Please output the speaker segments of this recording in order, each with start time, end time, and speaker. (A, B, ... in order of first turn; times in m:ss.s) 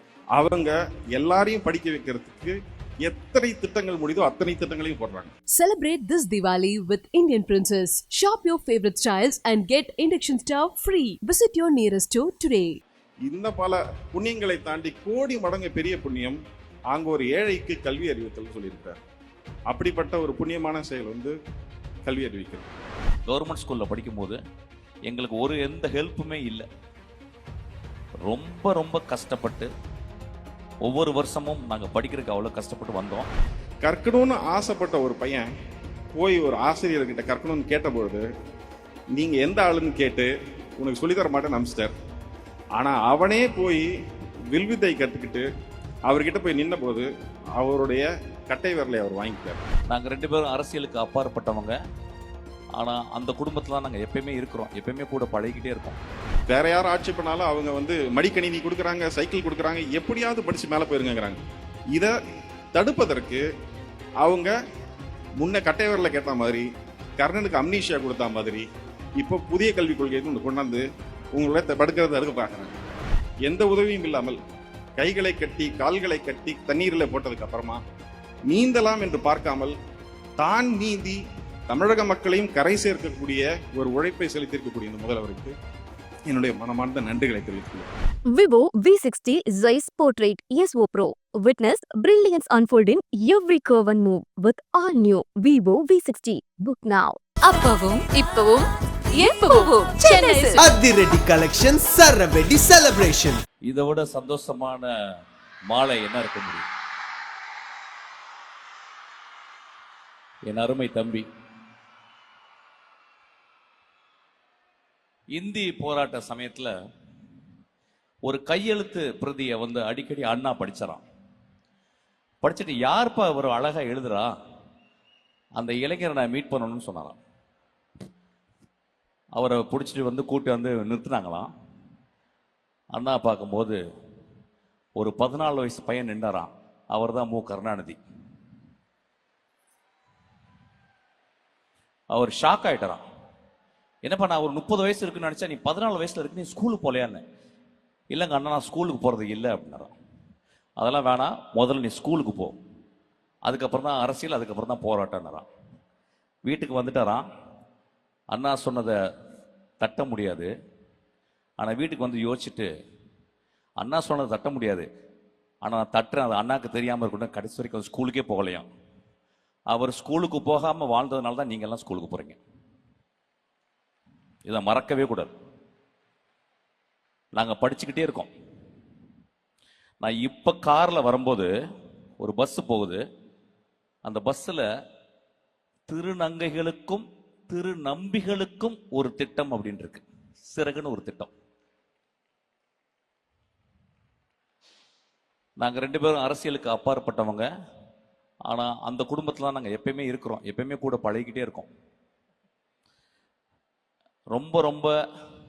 0:00.3-0:05.3 A
0:05.5-0:12.8 B
0:13.2-0:16.4 A
0:16.9-0:19.0 A
0:19.7-0:21.4 A
0:22.0-0:22.8 A
0:23.3-0:24.4 C
0:25.1-0:26.6 C
0:28.3-0:29.7 C
0:30.8-0:33.3 C
0:33.8-0:35.4 A
0:36.1-0:38.2 A
0:39.1-0:41.9 A
0:42.8-0:43.9 A
0:44.5-0:45.4 A
0:46.1-0:49.6 A
0:49.9-0:51.8 C
0:52.8-0:56.0 C
0:56.5-1:01.4 A
1:02.7-1:03.4 A
1:04.2-1:04.5 A
1:05.4-1:06.6 A
1:07.2-1:08.6 A
1:09.2-1:10.8 A
1:11.3-1:12.8 A
1:13.4-1:14.4 A
1:15.0-1:17.8 A
1:18.5-1:19.8 A
1:20.4-1:25.5 A
1:26.3-1:27.9 A
1:28.3-1:37.2 D
1:37.4-1:40.6 E
1:40.5-1:43.4 F
1:43.7-1:44.8 C
1:46.1-1:46.6 C
1:50.5-1:51.2 C
1:55.3-1:56.7 C
1:58.2-2:01.0 C
2:02.4-2:04.3 C
2:05.6-2:07.2 C
2:09.4-2:11.5 C
2:12.9-2:13.8 C
2:15.0-2:18.0 C
2:22.1-2:23.0 C
2:24.0-2:27.2 C
2:28.1-2:29.9 C
2:30.8-2:32.6 C
2:33.4-2:35.4 C
2:36.4-2:37.2 C
2:38.3-2:38.9 C
2:39.8-2:40.5 C
2:41.6-2:42.7 C
2:43.8-2:44.8 C
2:45.6-2:48.7 C
2:49.7-2:52.4 C
2:54.4-2:55.3 C
2:57.4-2:58.3 C
3:00.0-3:01.5 C
3:02.2-3:03.0 C
3:04.0-3:04.6 C
3:05.9-3:11.3 C
3:15.6-3:17.4 C
3:18.5-3:21.7 C
3:24.3-3:24.9 C